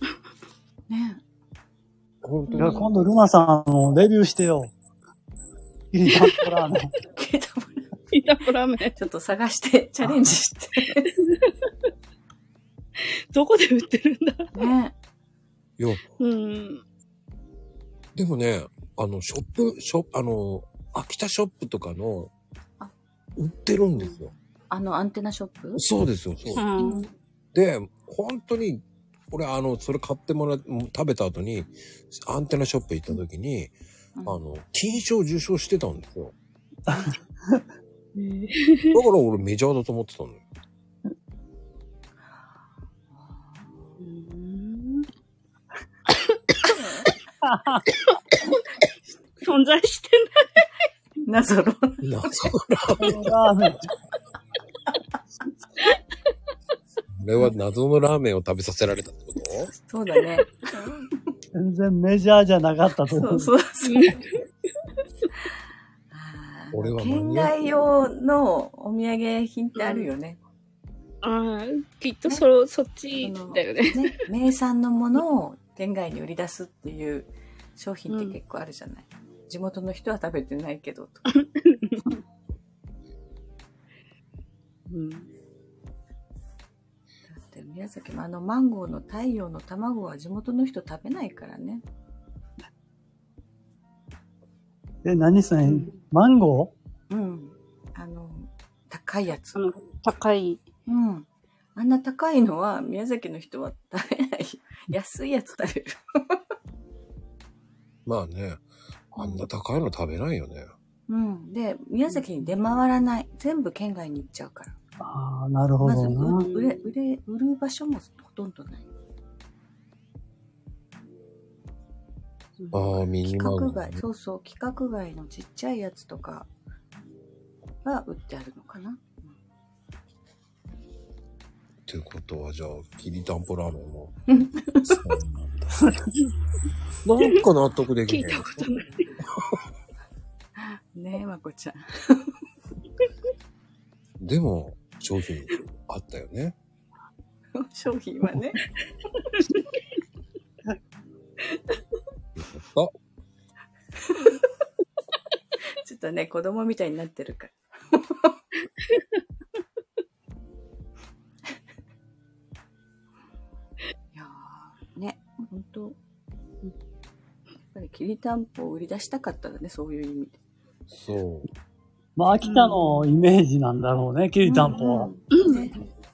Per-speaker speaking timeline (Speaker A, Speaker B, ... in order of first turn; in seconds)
Speaker A: 0.9-1.2, 2.5-2.9, 7.1-7.9, 8.9-11.1, 14.5-14.9, 24.0-25.8, 26.8-27.1, 43.1-44.0, 46.6-47.1, 51.2-52.5, 59.7-61.3, 63.1-64.2, 66.1-70.4, 73.2-81.3, 87.3-91.8, 97.1-99.7, 100.9-106.4, 109.2-109.5, 111.1-114.8, 115.8-118.9, 123.2-126.5, 127.8-129.3, 134.3-135.0, 140.6-142.3, 147.6-148.6, 155.8-158.3, 164.1-166.0, 167.7-170.4, 172.5-172.8, 174.4-175.8
Speaker B: 2.2-2.8, 15.8-16.0, 18.1-22.3, 23.4-24.3, 25.8-26.6, 27.5-33.7, 34.2-36.3, 38.9-40.4, 52.0-53.2, 57.2-59.7, 66.7-67.7, 108.0-110.7, 122.7-124.0, 131.8-134.2, 134.8-136.0, 137.0-138.7, 144.2-146.6, 152.3-152.9, 170.9-171.5
Speaker C: 2.6-4.7, 5.9-6.9, 36.9-37.6, 47.4-47.8, 53.0-53.9, 61.5-63.5, 95.0-96.7, 115.0-116.5, 172.2-175.1
Speaker D: 8.1-9.0, 11.2-11.5, 13.3-14.5, 16.2-16.8, 26.5-27.1, 38.1-39.0, 44.0-45.1, 49.4-50.6, 63.8-64.4, 69.8-70.1, 71.2-74.2, 78.1-78.4, 81.3-82.2, 84.9-85.3, 99.5-100.7, 116.4-116.8, 122.6-122.8, 138.1-139.1, 158.9-159.2, 175.3-175.7